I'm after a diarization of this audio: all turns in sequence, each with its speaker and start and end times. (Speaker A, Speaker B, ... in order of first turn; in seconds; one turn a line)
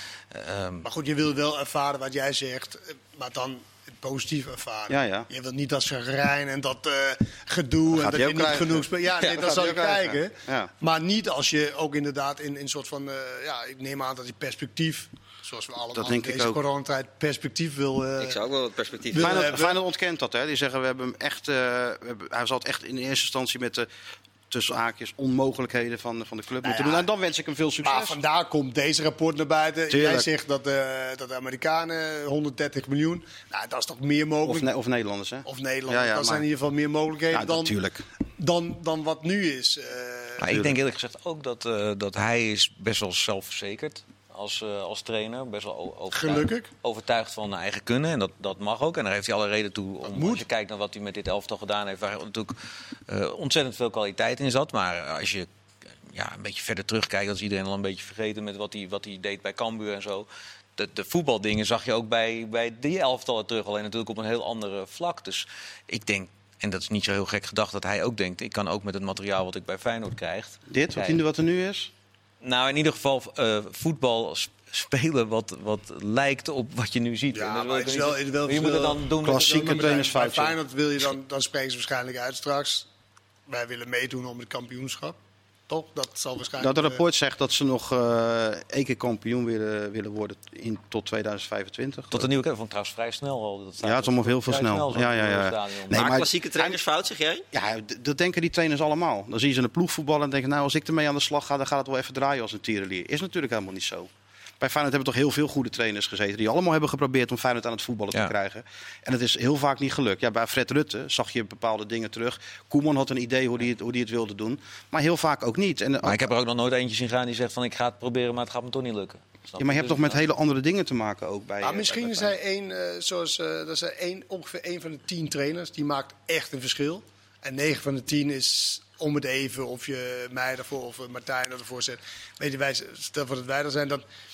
Speaker A: 0.3-0.9
Speaker B: 0.8-18.4
Speaker C: 4.9-5.3
Speaker C: 7.9-10.7
Speaker C: 15.9-16.6
Speaker D: 18.2-19.6
Speaker B: 19.1-19.8
Speaker C: 19.2-23.9
Speaker C: 24.5-28.2
Speaker B: 26.6-27.1
Speaker B: 27.8-34.7
Speaker C: 29.9-30.3
Speaker C: 34.4-36.4
Speaker B: 35.5-37.8
Speaker C: 37.3-38.0
Speaker B: 38.4-40.5
Speaker A: 40.4-55.5
Speaker C: 40.4-40.8
Speaker B: 46.1-46.7
Speaker B: 50.0-50.5
Speaker A: 56.1-71.2
Speaker C: 70.7-71.9
Speaker A: 72.4-80.0
Speaker B: 77.3-82.9
Speaker C: 79.2-80.6
Speaker B: 83.5-85.2
Speaker B: 85.7-87.0
Speaker C: 86.6-92.3
Speaker A: 92.1-96.2
Speaker C: 93.8-96.8
Speaker D: 95.9-97.4
Speaker C: 97.5-104.1
Speaker C: 104.6-116.3
Speaker A: 116.0-120.2
Speaker C: 119.6-122.3
Speaker B: 121.6-134.0